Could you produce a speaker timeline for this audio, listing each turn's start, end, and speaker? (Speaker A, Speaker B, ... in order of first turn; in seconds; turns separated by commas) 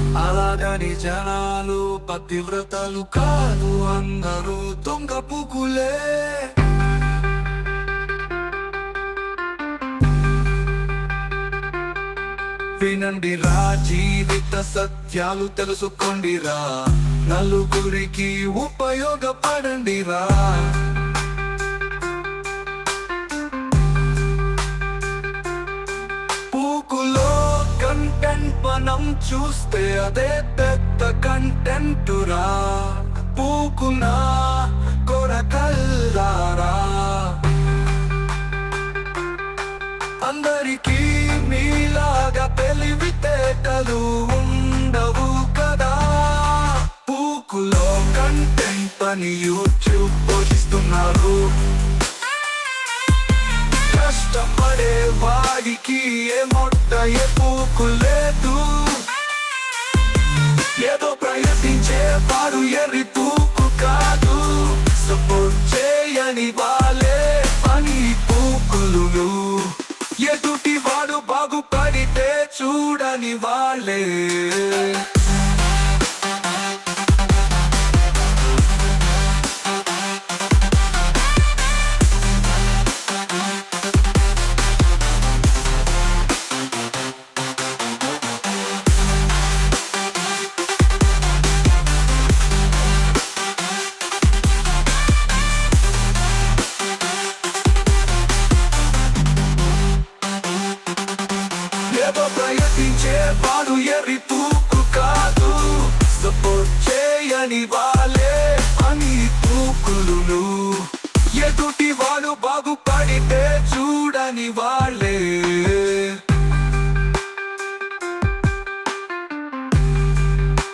Speaker A: 0.2-6.6, Speaker A: 12.8-21.0, Speaker A: 26.5-37.5, Speaker A: 40.2-51.6, Speaker A: 53.8-59.1, Speaker A: 60.7-75.2, Speaker A: 101.8-116.3